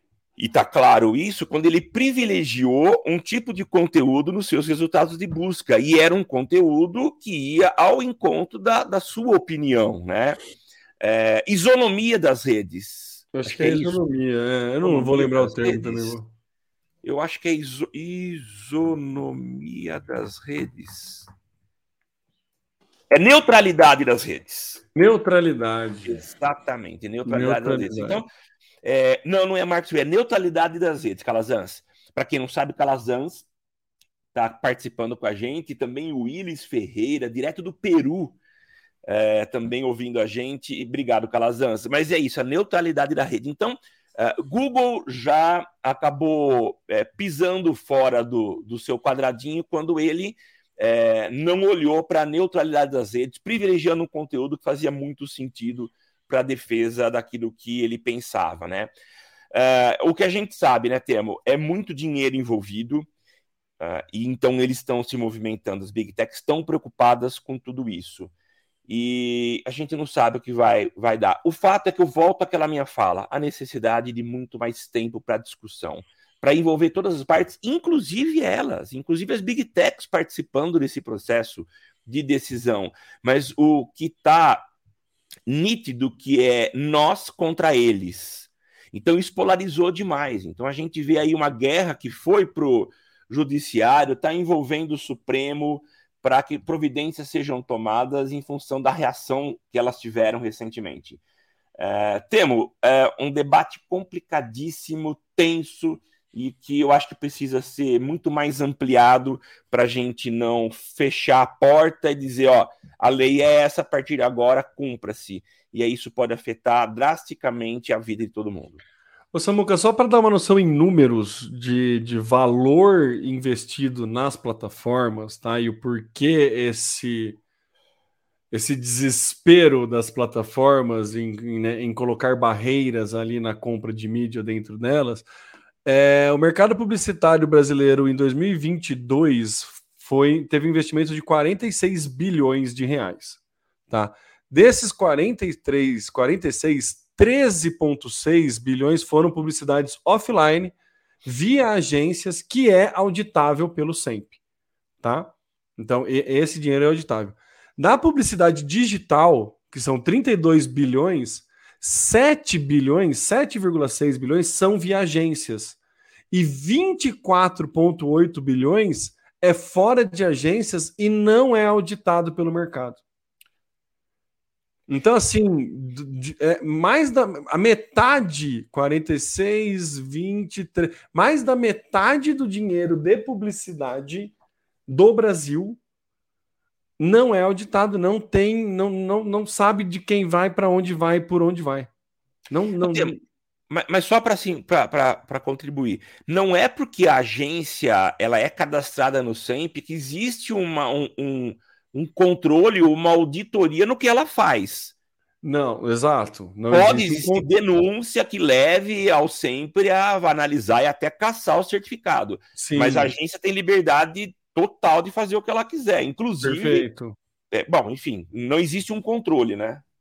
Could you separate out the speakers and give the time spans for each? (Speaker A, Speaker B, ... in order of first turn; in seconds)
Speaker A: 0.4-10.4, 11.0-14.0, 14.8-16.2, 17.0-21.3, 23.1-24.8, 26.0-28.3, 28.8-33.5, 34.3-38.4, 39.1-58.9, 59.5-63.1, 63.8-68.3, 68.9-84.7, 85.5-101.2, 101.8-118.8, 192.8-193.1, 193.7-204.9, 206.7-216.9, 217.5-219.8
Speaker B: 13.3-16.3, 24.9-26.2, 27.3-28.2, 119.3-127.4, 128.5-135.3, 135.8-154.4, 155.0-165.8, 166.3-173.0, 174.9-184.3, 184.9-185.8, 187.0-191.9, 192.5-193.2, 205.4-207.5, 212.6-213.1, 216.4-217.2